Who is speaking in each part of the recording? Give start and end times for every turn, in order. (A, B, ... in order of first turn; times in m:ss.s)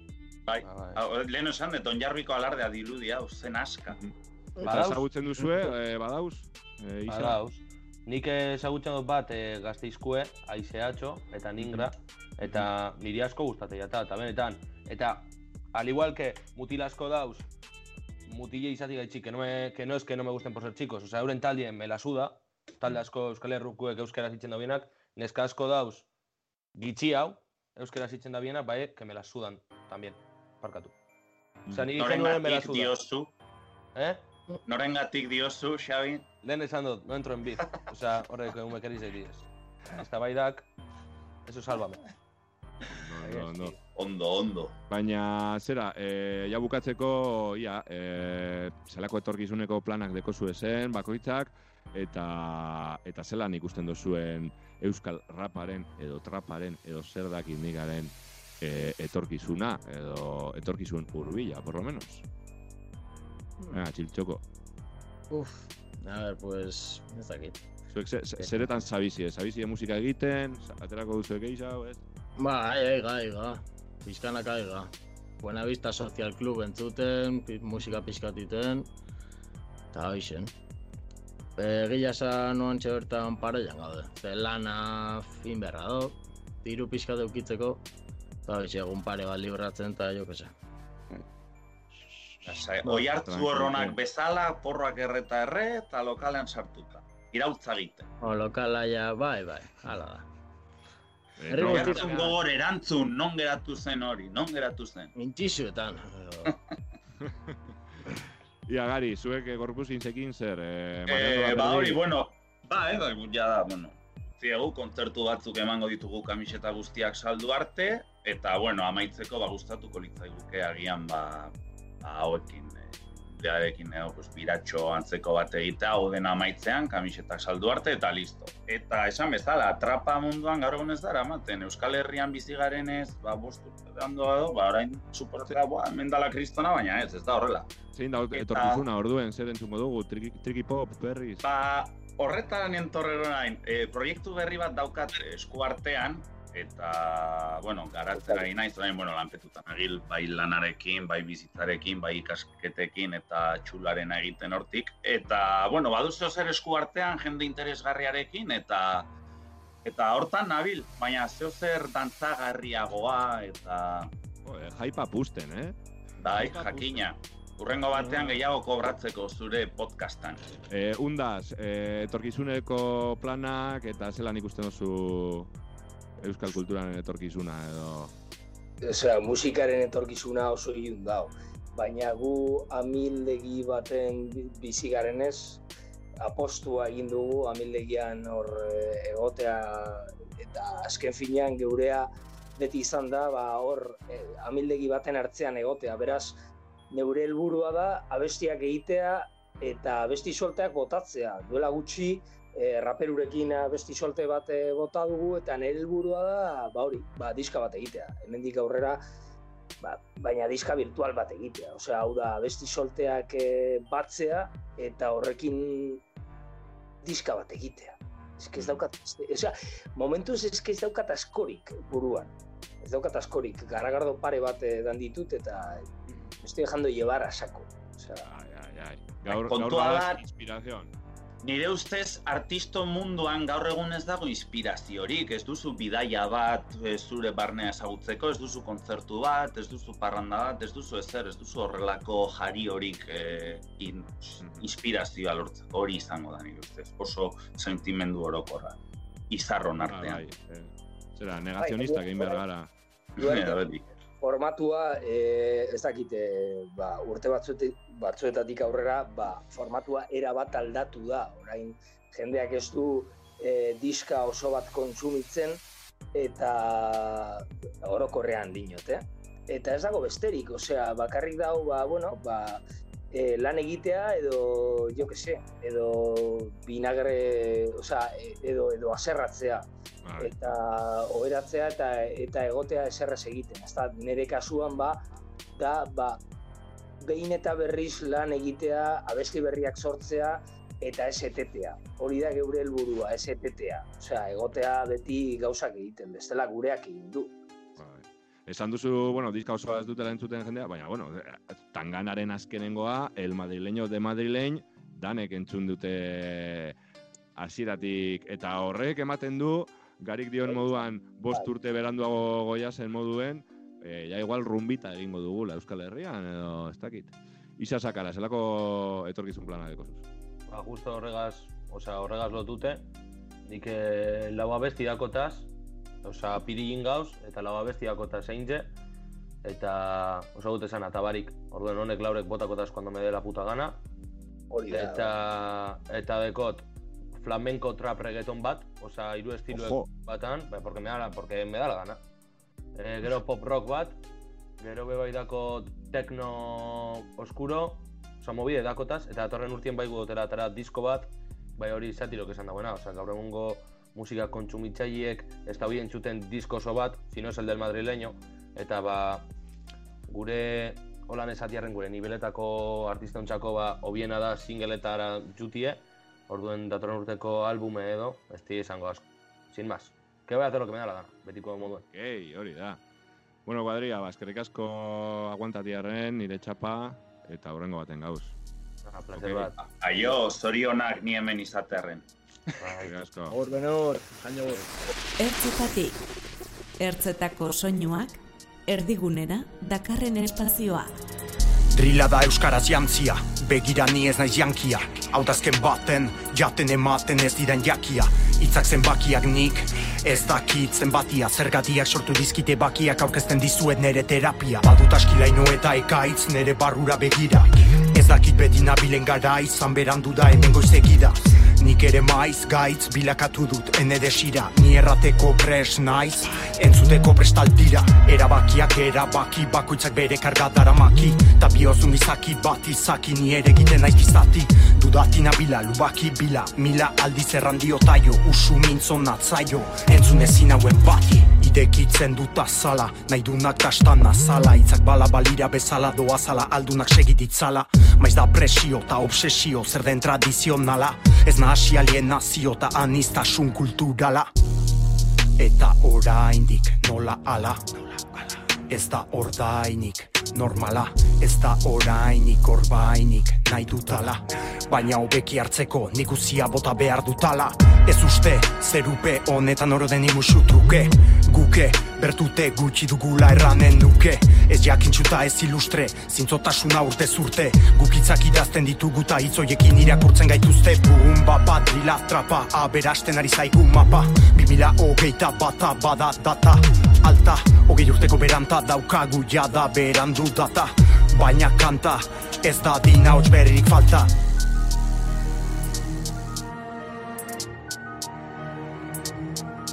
0:00.5-0:04.0 A
0:04.6-0:05.7 B
0:04.6-0:07.4 C
0:07.1-0:17.5 B
0:11.6-0:11.9 C
0:18.2-0:26.0 B
0:26.7-0:30.9 B
0:31.7-0:33.0 B
0:32.0-0:33.3 A
0:33.9-0:34.2 B
0:34.6-0:36.2 A
0:36.4-0:40.7 B
0:41.4-0:42.0 B
0:42.9-0:43.7 C
0:43.2-0:43.7 B
0:43.8-0:44.7 A
0:44.9-1:02.2 C
1:03.7-1:04.4 C
1:05.3-1:07.6 D
1:07.9-1:12.0 C
1:08.4-1:08.7 D
1:12.4-1:14.9 D
1:15.4-1:18.9 D
1:19.9-1:20.5 D
1:21.6-1:27.8 D
1:28.5-1:30.5 D
1:32.4-1:38.1 A
1:32.8-1:34.0 C
1:38.2-1:40.2 D
1:41.4-1:42.4 C
1:41.5-1:42.4 D
1:41.5-1:45.1 A
1:45.1-1:46.5 D
1:47.2-1:47.6 C
1:48.1-1:52.0 C
1:51.1-2:17.7 A
2:17.9-2:21.4 C
2:18.3-2:18.8 A
2:21.4-2:39.1 A
2:39.8-2:44.1 A
2:44.4-2:45.8 C
2:46.2-2:50.4 A
2:46.3-2:47.1 C
2:47.9-2:48.4 C
2:50.7-2:55.5 C
2:56.2-2:58.1 C
2:58.8-3:05.6 E
3:06.2-3:16.4 E
3:16.9-3:29.0 E
3:29.8-3:36.0 E
3:37.0-3:45.9 E
3:38.6-3:38.8 C
3:46.4-3:48.3 E
3:48.2-3:50.9 C
3:49.3-3:50.2 A
3:51.4-4:08.8 A
4:04.4-4:04.7 C
4:09.3-4:10.2 A
4:09.8-4:12.7 C
4:11.6-4:12.4 E
4:13.2-4:13.7 E
4:13.2-4:13.8 A
4:14.2-4:25.6 E
4:26.1-4:39.6 E
4:40.0-4:40.3 C
4:40.2-4:45.0 E
4:45.5-4:46.2 E
4:47.0-4:57.3 E
4:57.8-5:06.7 C
5:07.4-5:20.0 C
5:10.4-5:11.5 E
5:20.5-5:22.8 B
5:23.4-5:25.5 B
5:26.0-5:28.7 B
5:29.4-5:33.8 B
5:34.5-5:35.1 E
5:34.7-5:42.0 B
5:39.5-5:39.9 C
5:42.7-5:44.0 B
5:44.6-5:59.3 B
6:00.1-6:11.8 B
6:11.9-6:12.8 C
6:13.4-6:18.3 C
6:18.8-6:20.1 B
6:19.1-6:19.5 C
6:19.8-6:22.0 A
6:22.6-6:22.9 B
6:22.8-6:23.4 C
6:23.3-6:24.6 D
6:25.2-6:26.0 F
6:26.8-6:30.9 F
6:31.7-7:24.3 G
7:25.4-8:04.1 G